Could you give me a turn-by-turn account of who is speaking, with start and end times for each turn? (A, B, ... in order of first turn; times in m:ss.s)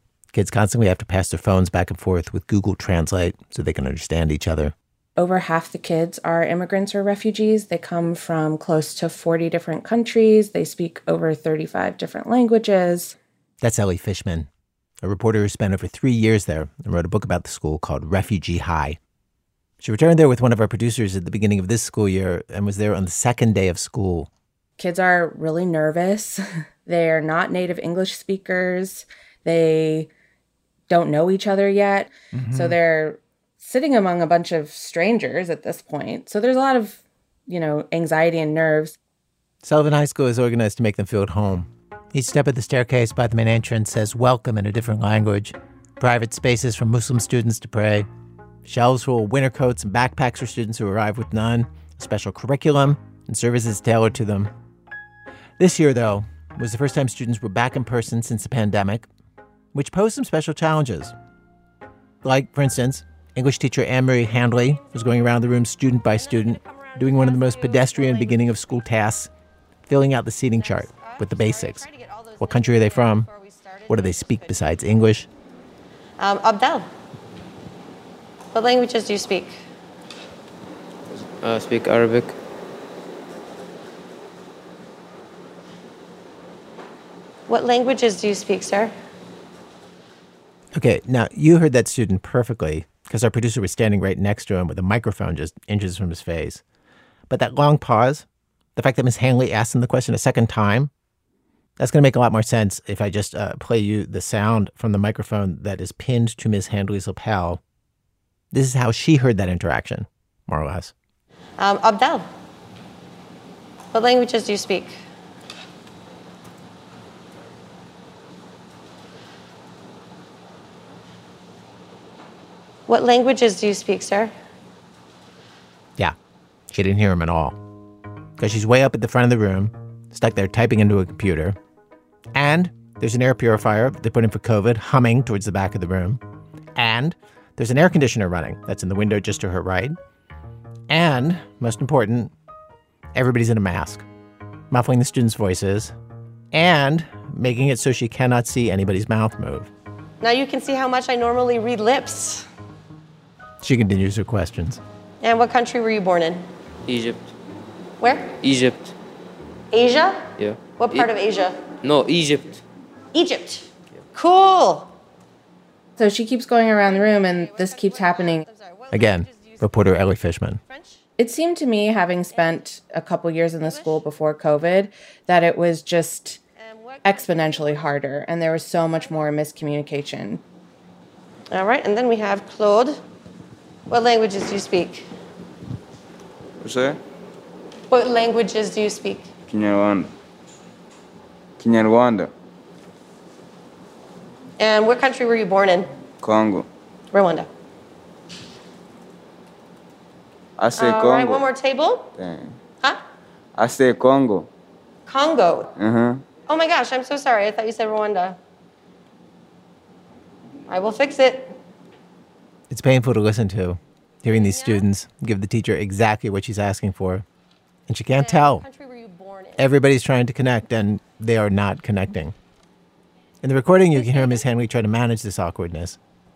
0:00.3-0:04.7 A
0:05.2-0:13.2 B
0:13.6-0:14.5 A
0:15.0-0:19.0 A
0:19.8-0:24.3 A
0:24.8-0:30.1 B
0:30.9-0:39.0 B
0:32.3-0:32.8 A
0:39.6-0:48.1 A
0:48.6-0:54.5 A
0:55.6-0:59.1 A
0:59.7-1:01.1 A
1:02.2-1:09.3 A
1:06.0-1:08.8 C
1:09.8-1:11.9 A
1:10.5-1:14.8 C
1:12.4-1:13.3 A
1:13.9-1:15.3 A
1:16.2-1:16.9 C
1:18.5-1:19.6 C
1:21.1-1:22.3 D
1:27.5-1:28.9 C
1:30.7-1:36.6 A
1:37.3-1:38.2 A
1:38.8-1:40.9 A
1:41.8-1:47.6 A
1:48.5-1:50.9 A
1:51.6-1:52.2 C
1:53.9-1:55.0 C
2:02.9-2:04.3 C
2:06.7-2:07.6 A
2:08.4-2:11.6 A
2:12.3-2:16.2 A
2:16.8-2:20.0 A
2:20.9-2:22.3 A
2:23.1-2:24.0 A
2:24.7-2:25.9 A
2:26.5-2:29.7 A
2:30.2-2:32.5 C
2:33.6-2:34.8 A
2:35.2-2:36.4 C
2:36.8-2:37.3 D
2:38.0-2:38.4 C
2:38.4-2:38.9 D
2:39.7-2:41.6 C
2:40.4-2:41.1 D
2:41.8-2:42.6 D
2:43.1-2:44.9 C
2:46.0-2:48.4 B
2:46.9-2:51.0 C
2:48.9-2:50.6 A
2:51.2-2:56.4 B
2:52.3-2:52.6 C
2:53.6-2:54.1 C
2:56.6-2:57.8 C
2:57.0-3:00.4 B
3:01.5-3:03.0 C
3:03.9-3:05.0 C
3:06.6-3:07.0 E
3:07.9-3:09.3 C
3:09.5-3:10.1 E
3:11.6-3:12.3 E
3:14.6-3:15.9 C
3:16.2-3:16.7 E
3:17.1-3:17.5 C
3:20.6-3:21.5 E
3:20.8-3:22.1 C
3:22.2-3:22.5 E
3:23.5-3:24.5 E
3:25.1-3:25.7 C
3:25.8-3:26.2 E
3:26.5-3:28.4 C
3:30.7-3:31.5 C
3:32.7-3:37.2 A
3:34.3-3:34.8 C
3:37.9-3:38.6 A
3:38.1-3:39.7 C
3:39.6-3:42.4 A
3:43.4-3:46.0 A
3:43.9-3:44.5 C